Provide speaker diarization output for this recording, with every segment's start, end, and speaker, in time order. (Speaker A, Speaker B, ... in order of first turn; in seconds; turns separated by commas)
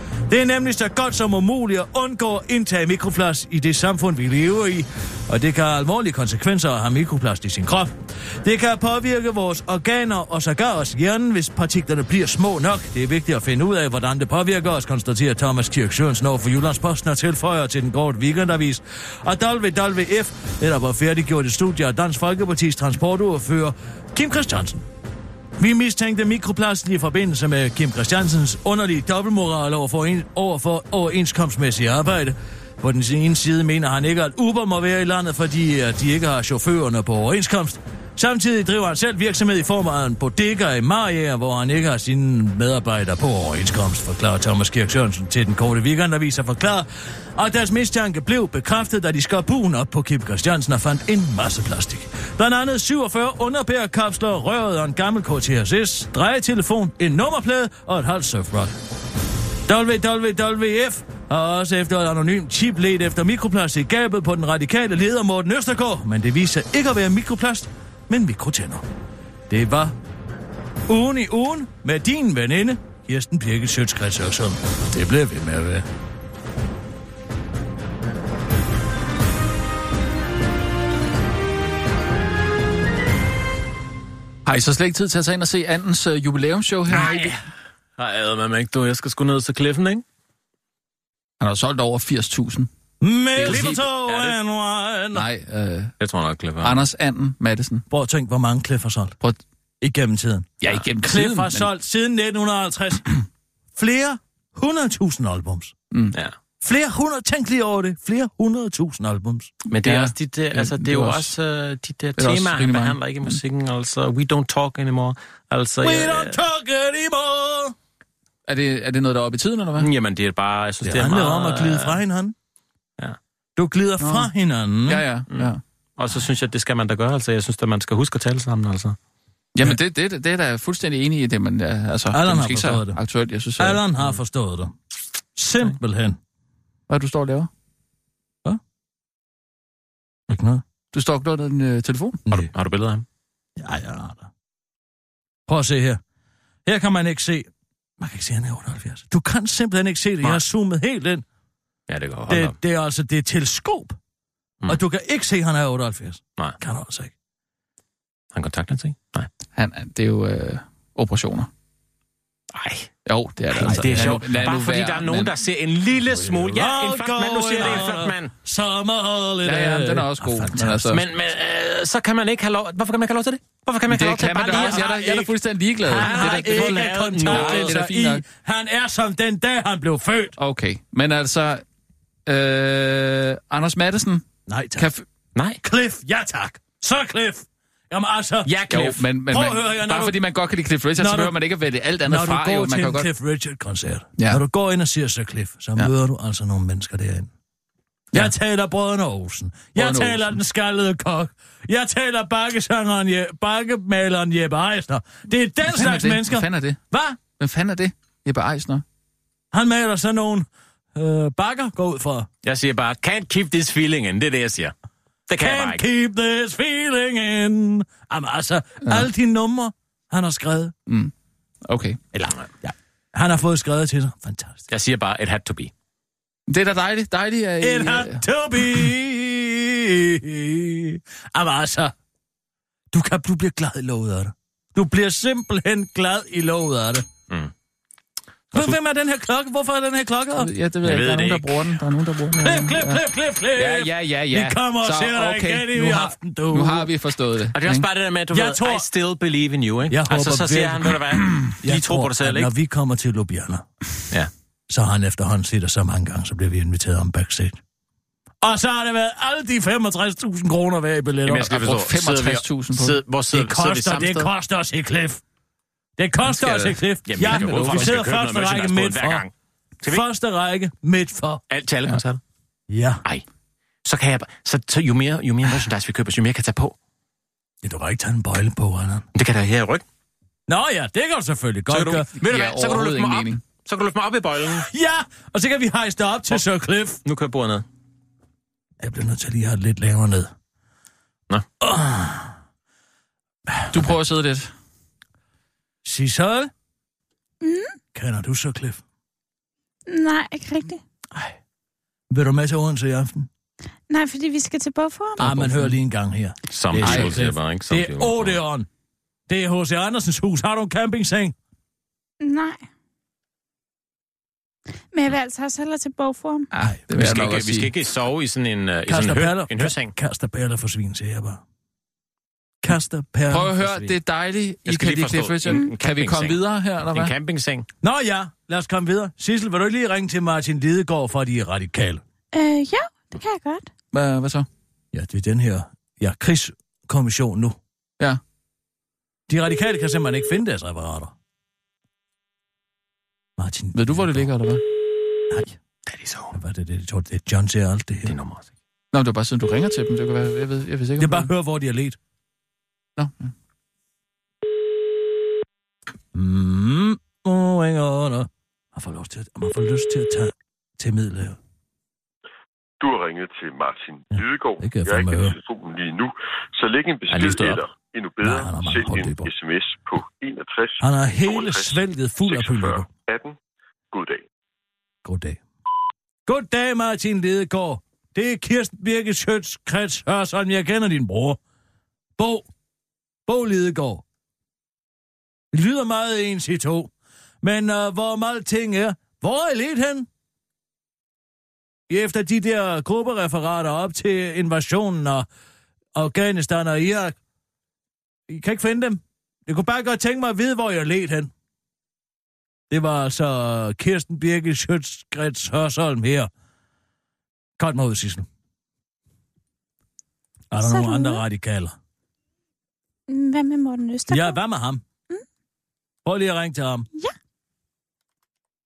Speaker A: 0.3-7.9, Speaker A: 8.4-24.8, Speaker A: 25.6-58.7, Speaker A: 59.7-68.8, Speaker A: 69.5-69.9, Speaker A: 70.9-75.8, Speaker B: 84.4-87.4, Speaker C: 86.9-87.3, Speaker C: 88.0-90.0, Speaker B: 91.4-92.7, Speaker A: 93.0-95.2, Speaker B: 93.3-93.8, Speaker C: 93.4-94.4, Speaker B: 95.1-95.9, Speaker C: 96.0-96.8, Speaker B: 96.6-97.8, Speaker A: 97.9-99.2, Speaker A: 99.8-103.2, Speaker B: 100.6-101.7, Speaker A: 103.8-105.7, Speaker B: 105.9-106.2, Speaker A: 106.6-109.5, Speaker C: 109.7-116.4, Speaker B: 109.8-111.3, Speaker B: 112.2-113.4, Speaker A: 115.8-117.7, Speaker B: 118.5-119.9, Speaker C: 119.8-122.0, Speaker A: 120.8-122.3, Speaker A: 123.6-125.0, Speaker B: 124.0-124.3, Speaker B: 124.8-125.6, Speaker C: 125.3-129.0, Speaker B: 129.5-133.8, Speaker A: 132.1-133.0, Speaker A: 133.6-134.7, Speaker A: 135.3-136.2, Speaker B: 136.9-137.5, Speaker A: 140.3-140.6, Speaker B: 140.9-142.2, Speaker C: 142.3-143.0, Speaker A: 143.6-144.3, Speaker A: 145.5-146.0, Speaker A: 146.7-147.5, Speaker A: 148.0-151.2, Speaker C: 151.9-152.6, Speaker A: 152.3-154.0, Speaker A: 154.7-157.1, Speaker C: 158.3-159.3, Speaker B: 159.6-161.5, Speaker C: 162.5-162.9, Speaker B: 163.1-165.3, Speaker C: 163.5-168.3, Speaker A: 163.6-164.2, Speaker A: 166.2-171.0, Speaker B: 169.4-171.0, Speaker C: 170.9-175.1, Speaker B: 173.9-178.2, Speaker A: 174.5-175.3, Speaker A: 175.8-180.3, Speaker C: 176.0-177.8, Speaker B: 180.4-181.6, Speaker B: 182.2-185.1, Speaker A: 184.5-184.9, Speaker C: 185.3-185.6, Speaker A: 185.6-188.6, Speaker C: 188.4-189.0, Speaker B: 188.7-193.1, Speaker A: 189.3-190.2, Speaker A: 191.0-191.3, Speaker A: 192.1-197.3, Speaker A: 198.1-207.2, Speaker B: 199.8-200.4, Speaker B: 205.6-206.8, Speaker B: 207.4-208.8, Speaker A: 209.5-212.3, Speaker C: 212.4-214.7, Speaker C: 215.3-215.8, Speaker A: 215.4-220.7, Speaker B: 220.9-221.1, Speaker B: 221.7-222.0, Speaker C: 222.2-222.4, Speaker A: 222.6-224.6, Speaker C: 224.7-225.7, Speaker B: 226.5-228.9, Speaker A: 227.6-231.9, Speaker A: 232.9-237.0, Speaker A: 238.5-240.5, Speaker B: 240.4-243.0, Speaker C: 240.8-241.6, Speaker A: 242.4-246.9, Speaker B: 243.5-247.9, Speaker C: 247.5-252.5, Speaker A: 248.3-248.8, Speaker A: 249.9-251.0, Speaker B: 251.1-251.5, Speaker A: 251.6-253.7, Speaker A: 254.7-257.6, Speaker A: 258.4-261.6, Speaker C: 261.2-264.3, Speaker B: 261.3-263.0, Speaker A: 263.3-265.2, Speaker A: 266.0-269.2, Speaker B: 266.2-268.0, Speaker C: 267.1-269.3, Speaker A: 269.9-271.4, Speaker C: 271.5-272.2, Speaker A: 272.7-273.0, Speaker C: 273.8-276.7, Speaker A: 277.6-279.0, Speaker C: 279.1-279.8, Speaker A: 280.5-282.1, Speaker C: 281.7-284.7, Speaker B: 282.1-283.4, Speaker A: 284.5-287.0, Speaker C: 287.0-287.6, Speaker A: 288.8-290.3, Speaker A: 291.6-292.3, Speaker A: 293.5-293.7, Speaker B: 293.7-294.5, Speaker A: 295.8-296.5, Speaker D: 297.4-297.7, Speaker A: 297.9-298.8, Speaker D: 299.9-300.8, Speaker A: 302.1-303.3, Speaker D: 303.9-305.3, Speaker A: 305.2-308.7, Speaker B: 305.4-305.7, Speaker C: 306.5-308.4, Speaker B: 306.8-307.2, Speaker A: 309.3-311.3, Speaker D: 312.2-312.6, Speaker D: 314.9-316.5, Speaker B: 316.5-317.7, Speaker C: 316.9-319.9, Speaker A: 318.9-321.4, Speaker A: 322.6-323.9, Speaker B: 323.3-327.1, Speaker C: 324.7-327.7, Speaker A: 327.8-332.0, Speaker D: 332.3-333.7, Speaker B: 333.9-334.5, Speaker A: 334.9-337.6, Speaker A: 339.3-341.1, Speaker A: 343.4-344.3, Speaker B: 343.7-344.6, Speaker C: 345.9-346.3, Speaker A: 346.3-348.1, Speaker C: 348.1-348.5, Speaker B: 348.9-351.3, Speaker A: 351.0-352.0, Speaker B: 352.9-353.3, Speaker A: 356.1-361.4, Speaker E: 362.8-373.4, Speaker A: 364.1-365.4, Speaker C: 367.1-367.6, Speaker A: 367.1-367.5, Speaker A: 368.2-369.3, Speaker A: 370.8-372.9, Speaker E: 373.9-374.2, Speaker A: 375.0-375.4, Speaker A: 376.2-381.4, Speaker A: 382.2-382.5, Speaker A: 383.3-384.0, Speaker A: 385.5-386.9, Speaker A: 387.4-390.1, Speaker A: 391.9-395.2, Speaker A: 395.9-397.1, Speaker A: 398.3-401.3, Speaker A: 402.7-406.3, Speaker A: 407.6-408.2, Speaker A: 410.5-411.7, Speaker D: 410.6-411.2, Speaker D: 413.1-414.4, Speaker A: 414.1-414.8, Speaker A: 416.0-416.9